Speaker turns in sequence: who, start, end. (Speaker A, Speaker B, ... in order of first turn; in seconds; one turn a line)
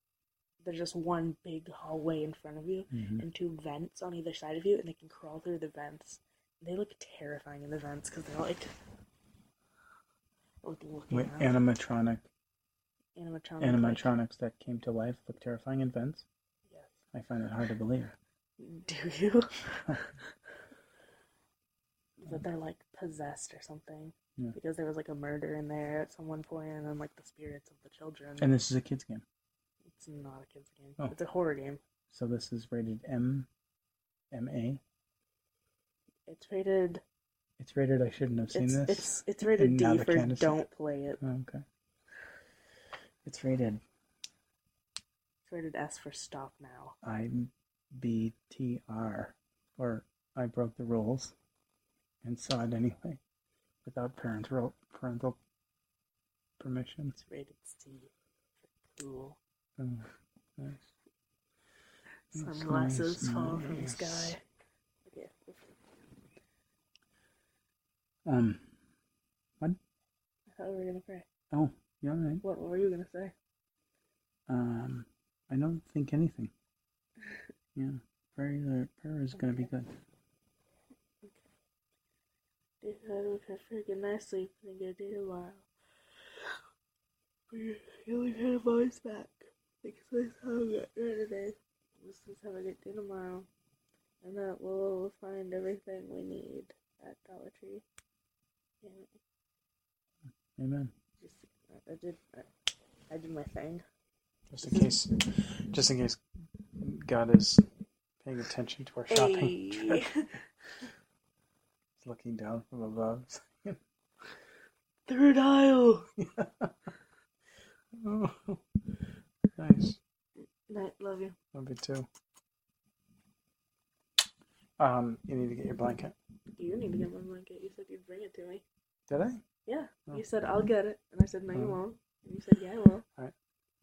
Speaker A: 0.6-8.7
Speaker B: 2.9-3.2
Speaker A: 10.6-11.6
Speaker B: 11.1-12.3
Speaker A: 13.2-14.1
Speaker B: 13.6-16.3
Speaker A: 16.7-16.9
Speaker B: 17.1-18.1
Speaker A: 18.6-20.2
Speaker A: 22.2-28.5
Speaker B: 28.4-29.2
Speaker A: 29.9-31.8
Speaker B: 32.1-33.5
Speaker B: 34.3-34.8
Speaker A: 36.3-37.0
Speaker B: 37.6-40.6
Speaker A: 38.5-41.2
Speaker B: 41.2-41.6
Speaker B: 43.2-43.8
Speaker A: 45.5-47.0
Speaker B: 47.0-51.4
Speaker B: 52.2-53.2
Speaker B: 53.8-55.4
Speaker B: 56.6-57.2
Speaker A: 57.1-58.1
Speaker A: 58.7-59.4
Speaker B: 59.8-60.9
Speaker A: 62.3-64.4
Speaker B: 62.3-64.4
Speaker A: 65.1-65.8
Speaker B: 68.3-68.8
Speaker A: 70.5-71.3
Speaker B: 71.5-72.4
Speaker A: 72.4-73.3
Speaker B: 74.5-76.5
Speaker B: 77.8-79.9
Speaker A: 79.4-79.7
Speaker A: 82.8-85.7
Speaker A: 87.5-93.5
Speaker A: 94.2-97.8
Speaker A: 98.8-99.1
Speaker B: 100.6-100.9
Speaker A: 101.2-102.5
Speaker A: 103.1-103.8
Speaker B: 104.5-106.2
Speaker A: 104.6-104.9
Speaker B: 106.8-107.7
Speaker B: 108.2-110.1
Speaker A: 109.1-110.3
Speaker B: 112.0-113.8
Speaker A: 115.1-116.1
Speaker B: 116.2-116.7
Speaker B: 117.9-118.8
Speaker B: 119.6-120.0
Speaker A: 120.7-121.4
Speaker B: 121.5-122.1
Speaker B: 124.8-126.2
Speaker A: 126.5-128.7
Speaker B: 129.1-129.4
Speaker A: 129.7-133.1
Speaker B: 131.5-131.8